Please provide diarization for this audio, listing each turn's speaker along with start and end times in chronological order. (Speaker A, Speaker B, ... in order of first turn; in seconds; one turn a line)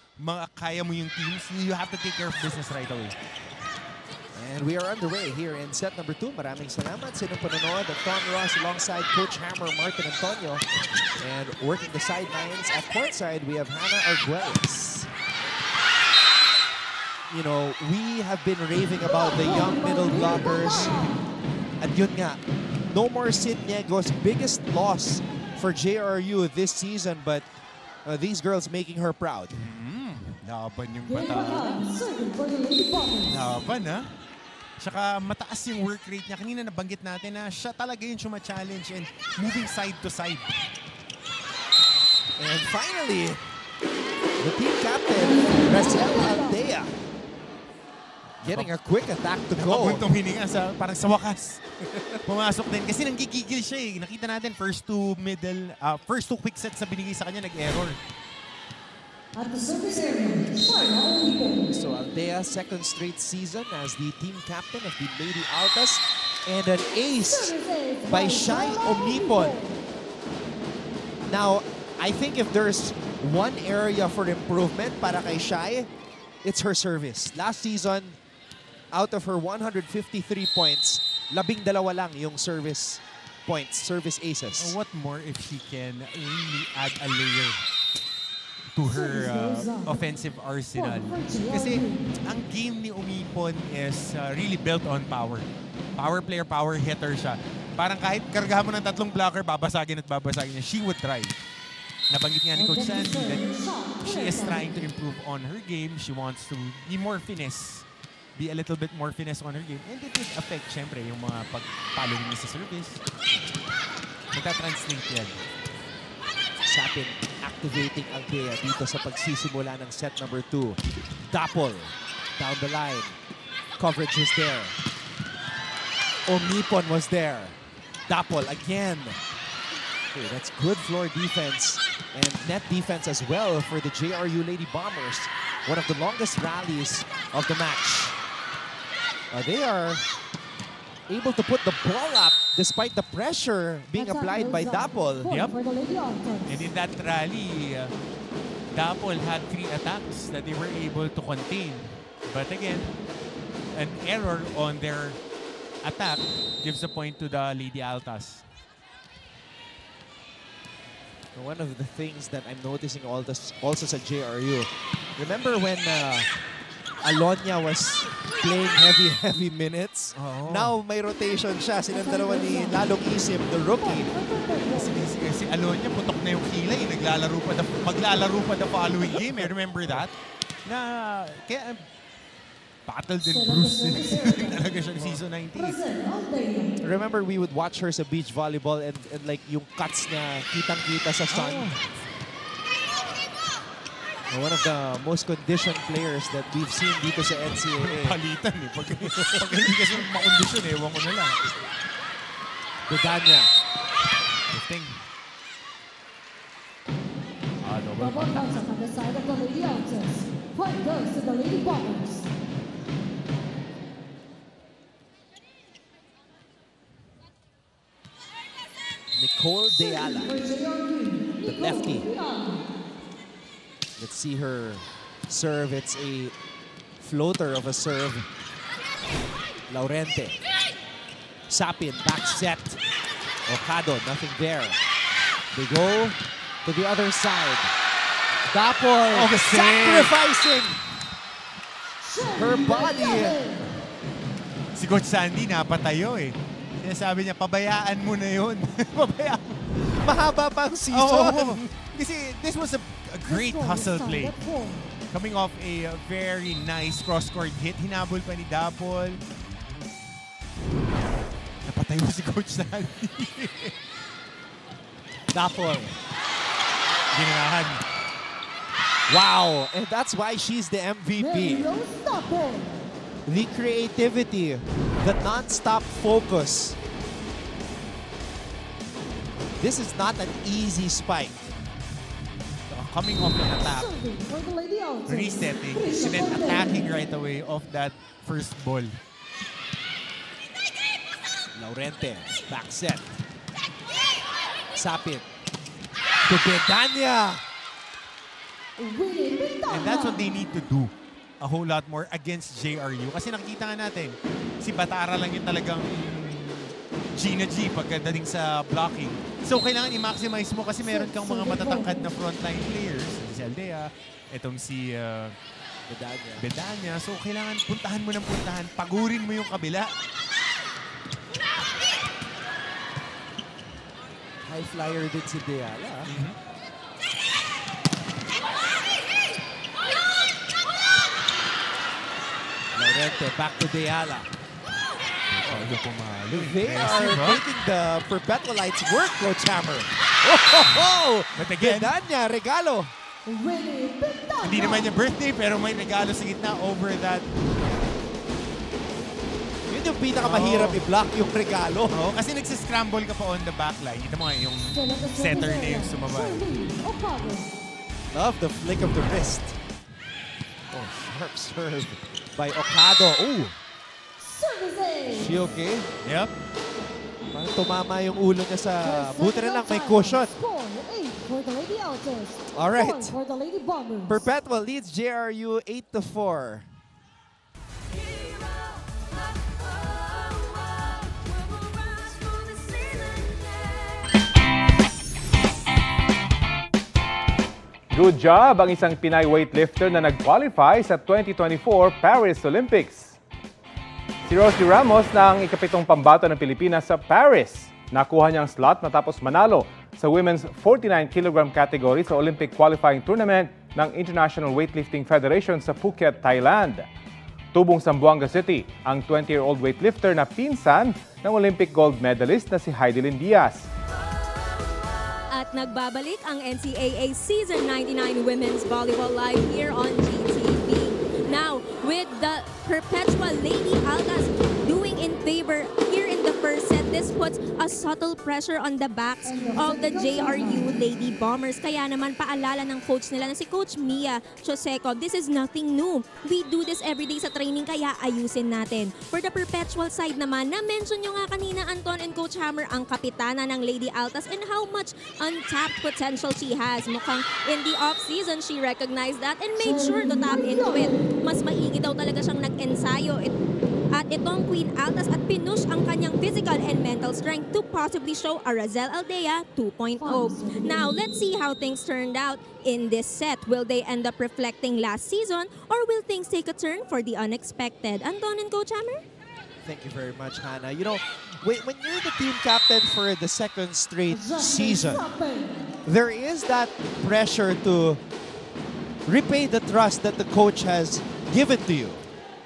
Speaker A: 0.2-3.1
Speaker B: 4.3-10.7
Speaker B: 11.2-15.1
Speaker B: 17.3-21.0
Speaker C: 19.0-21.2
Speaker B: 21.8-27.5
Speaker B: 28.1-29.6
Speaker A: 29.6-31.7
Speaker C: 31.1-33.4
Speaker A: 33.3-34.1
Speaker A: 34.8-40.6
Speaker B: 42.4-43.5
Speaker B: 44.4-46.9
Speaker C: 45.1-46.6
Speaker B: 48.4-50.1
Speaker A: 48.5-48.7
Speaker A: 49.6-51.6
Speaker A: 52.2-58.0
Speaker C: 59.4-61.7
Speaker B: 61.7-67.5
Speaker C: 67.2-69.8
Speaker B: 68.1-69.5
Speaker B: 71.3-75.9
Speaker B: 76.4-78.2
Speaker B: 78.9-84.8
Speaker A: 84.6-87.6
Speaker A: 88.8-101.4
Speaker C: 88.8-90.0
Speaker C: 90.7-92.1
Speaker A: 102.1-103.5
Speaker C: 102.5-104.6
Speaker A: 104.0-113.0
Speaker A: 114.3-115.4
Speaker B: 116.7-123.2
Speaker B: 123.8-124.8
Speaker B: 126.3-129.2
Speaker B: 130.1-138.2
Speaker B: 139.3-140.0
Speaker B: 141.1-145.3
Speaker C: 143.9-146.7
Speaker A: 145.3-145.6
Speaker A: 146.5-147.9
Speaker A: 148.7-152.9
Speaker A: 153.7-155.2
Speaker A: 155.8-158.4
Speaker B: 161.3-166.3
Speaker B: 167.0-174.1
Speaker A: 170.2-170.7
Speaker C: 171.9-172.8
Speaker C: 173.8-175.1
Speaker A: 174.7-180.1
Speaker B: 179.4-180.0
Speaker A: 180.7-181.8
Speaker A: 182.9-185.8
Speaker C: 183.2-184.7
Speaker B: 184.9-185.2
Speaker C: 185.5-186.7
Speaker B: 186.8-191.7
Speaker A: 191.3-192.0
Speaker B: 194.3-198.2
Speaker A: 197.8-201.4
Speaker B: 202.9-203.5
Speaker A: 204.5-205.0
Speaker A: 207.6-208.7
Speaker C: 208.0-212.3
Speaker B: 219.1-220.4
Speaker C: 219.7-222.6
Speaker B: 221.4-222.1
Speaker B: 224.0-226.3
Speaker B: 227.0-228.3
Speaker B: 229.7-230.4
Speaker B: 231.5-232.8
Speaker B: 233.5-234.8
Speaker B: 235.5-237.7
Speaker B: 238.5-240.8
Speaker A: 239.1-240.1
Speaker C: 242.0-243.7
Speaker B: 242.3-243.4
Speaker A: 244.8-250.0
Speaker B: 250.0-251.6
Speaker A: 250.9-254.3
Speaker C: 253.3-254.9
Speaker A: 255.1-259.2
Speaker A: 261.6-263.8
Speaker B: 265.3-266.0
Speaker A: 267.1-267.8
Speaker B: 269.1-271.7
Speaker C: 271.2-272.8
Speaker B: 273.3-276.8
Speaker B: 279.6-281.6
Speaker A: 282.7-283.9
Speaker C: 283.6-286.8
Speaker A: 285.1-289.0
Speaker B: 291.5-293.2
Speaker B: 294.8-295.3
Speaker B: 296.2-297.4
Speaker C: 298.8-300.3
Speaker A: 299.7-315.4
Speaker C: 310.8-312.1
Speaker B: 315.9-316.5
Speaker A: 316.4-319.9
Speaker B: 324.4-326.1
Speaker A: 326.1-326.4
Speaker B: 332.7-334.3
Speaker A: 335.3-337.4
Speaker B: 335.4-342.9
Speaker A: 341.4-341.9
Speaker C: 343.3-344.9
Speaker A: 344.4-347.2
Speaker B: 349.6-352.0
Speaker A: 350.2-350.8
Speaker A: 351.9-356.5
Speaker C: 354.7-357.5
Speaker B: 358.1-359.6
Speaker B: 360.7-363.6
Speaker C: 364.2-365.4
Speaker B: 365.1-365.9
Speaker A: 366.0-366.3
Speaker B: 367.3-370.3
Speaker C: 368.8-374.2
Speaker B: 372.5-373.2
Speaker B: 374.1-376.7
Speaker C: 382.7-383.2
Speaker D: 387.9-393.2
Speaker D: 394.3-406.9
Speaker D: 407.5-413.7
Speaker E: 415.3-453.3
Speaker C: 429.2-430.8
Speaker C: 449.6-451.1
Speaker E: 453.9-469.0
Speaker C: 459.9-461.1
Speaker B: 469.6-475.1
Speaker C: 474.1-475.7
Speaker B: 475.9-478.0
Speaker B: 479.1-482.1